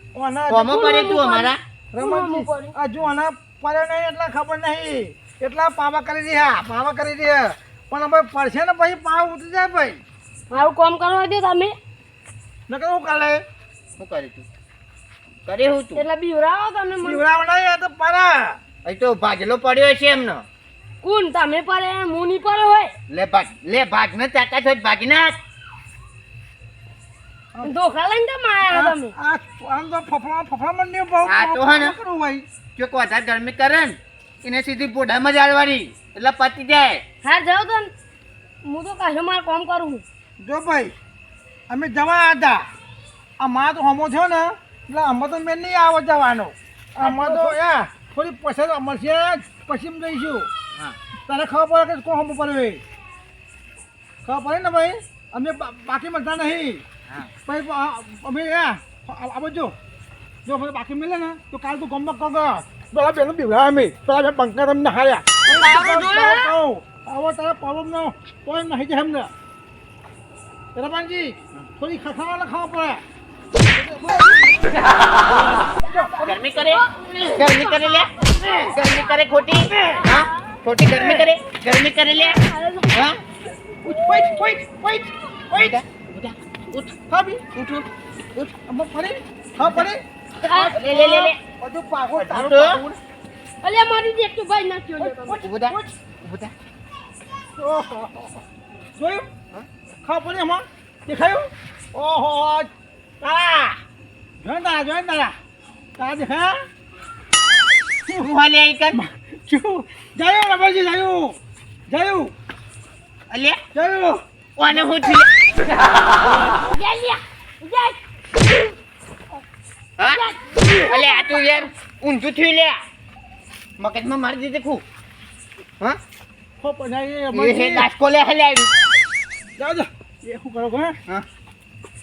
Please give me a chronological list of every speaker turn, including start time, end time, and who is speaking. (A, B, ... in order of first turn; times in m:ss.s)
0:00.1-0:00.7 A
0:00.5-0:01.6 B
0:00.7-0:02.7 C
0:01.9-0:10.0 A
0:10.5-0:11.7 C
0:12.7-0:13.4 A
0:14.0-0:14.4 B
0:15.4-0:16.0 B
0:15.9-0:17.2 C
0:17.0-0:18.6 A
0:18.8-0:20.4 B
0:21.0-0:22.9 C
0:23.1-0:25.4 B
0:27.6-0:29.1 C
0:28.7-0:32.5 A
0:31.2-0:32.0 B
0:32.8-0:37.0 B
0:37.2-0:37.9 C
0:38.6-0:40.0 C
0:40.4-0:40.9 A
0:41.7-0:42.7 A
0:43.4-0:50.5 A
0:51.3-0:52.8 A
0:54.2-0:56.8 A
0:57.4-0:59.8 A
1:00.4-1:09.3 A
1:05.4-1:06.6 C
1:10.7-1:13.0 A
1:13.7-1:14.8 A
1:15.8-1:16.2 A
1:15.8-1:18.0 C
1:16.2-1:16.8 B
1:17.4-1:18.1 B
1:18.7-1:22.4 B
1:19.7-1:20.0 A
1:20.9-1:21.2 A
1:22.2-1:23.0 C
1:22.9-1:23.2 B
1:23.7-1:25.8 A
1:25.5-1:26.9 B
1:27.1-1:27.4 A
1:27.5-1:27.9 B
1:28.3-1:33.0 A
1:29.6-1:29.9 B
1:30.4-1:31.2 C
1:30.7-1:31.4 B
1:32.2-1:32.8 B
1:33.6-1:35.4 C
1:35.0-1:35.9 A
1:35.4-1:36.5 B
1:37.6-1:38.4 A
1:39.0-1:39.3 A
1:40.0-1:42.7 A
1:43.2-1:43.8 A
1:44.4-1:45.4 A
1:46.0-1:46.6 A
1:48.2-1:49.0 B
1:48.9-1:51.4 A
1:51.9-1:52.3 A
1:53.3-1:53.6 B
1:53.7-1:54.9 A
1:54.6-1:55.3 B
1:56.6-1:58.0 C
2:00.0-2:02.8 B
2:00.1-2:01.4 C
2:03.8-2:04.8 B
2:06.6-2:07.9 A
2:07.3-2:08.7 B
2:09.6-2:11.0 A